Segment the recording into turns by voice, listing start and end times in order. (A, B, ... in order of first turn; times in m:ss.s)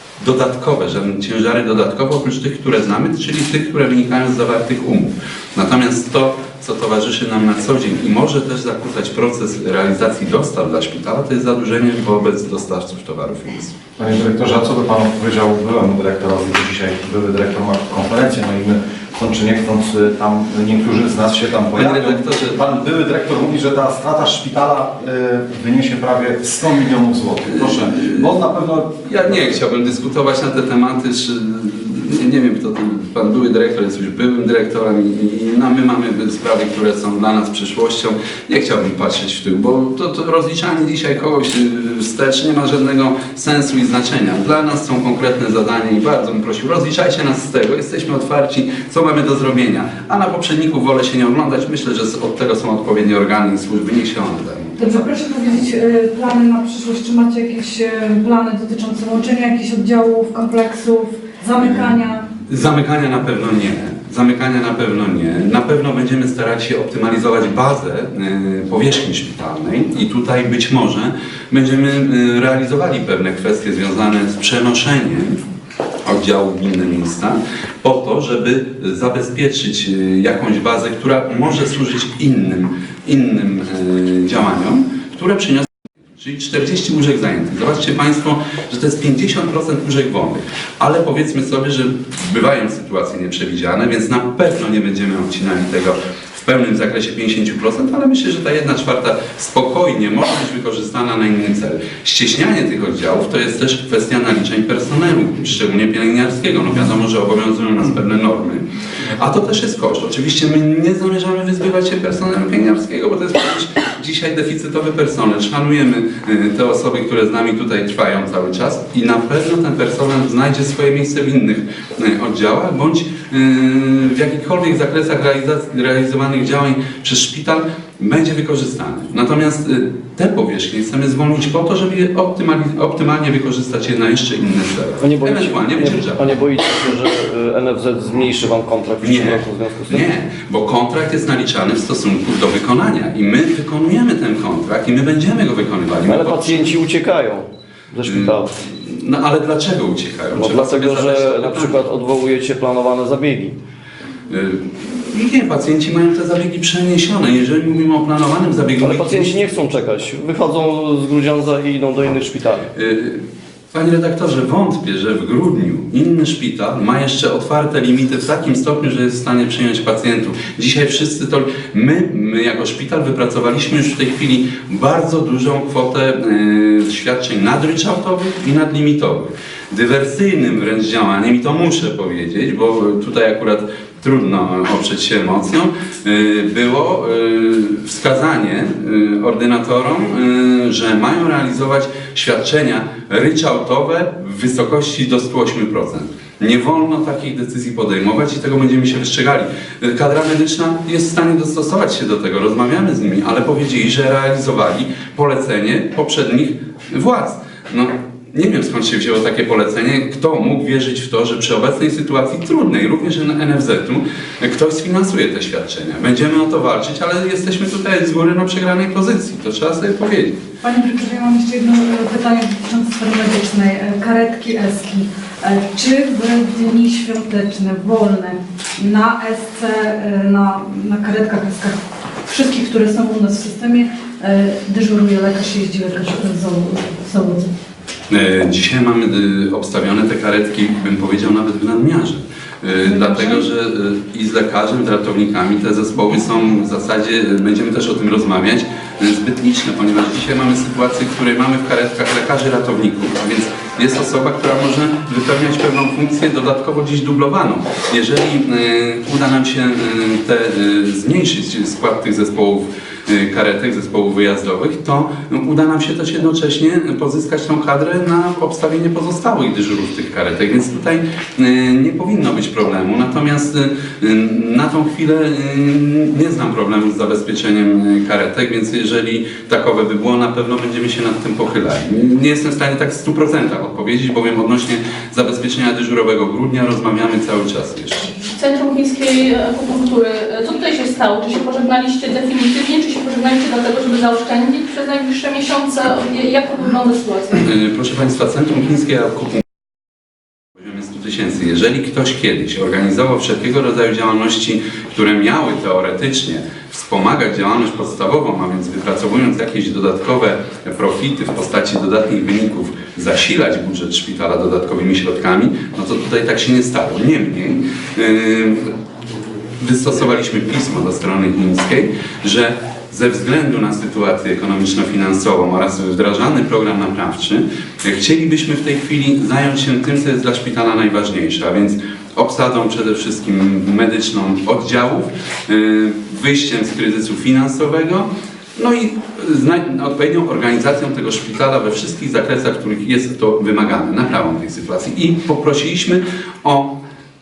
0:00.2-0:13.8 A
0:14.0-0:29.3 B
0:21.8-0:22.7 A
0:27.5-0:28.3 A
0:29.0-0:55.1 A
0:54.8-1:02.2 C
1:01.6-1:01.9 A
1:02.5-1:15.4 A
1:16.0-2:16.3 A
2:15.0-2:20.1 D
2:19.0-2:26.8 A
2:26.1-2:28.6 D
2:28.0-2:31.8 A
2:30.4-2:33.6 D
2:34.3-2:39.4 A
2:38.8-2:42.7 D
2:42.8-3:40.4 A
3:40.6-3:57.5 C
3:58.1-4:48.1 A
4:02.8-4:03.5 C
4:48.2-4:57.4 E
4:57.4-4:59.4 A
5:00.6-5:18.7 A
5:19.6-5:46.8 A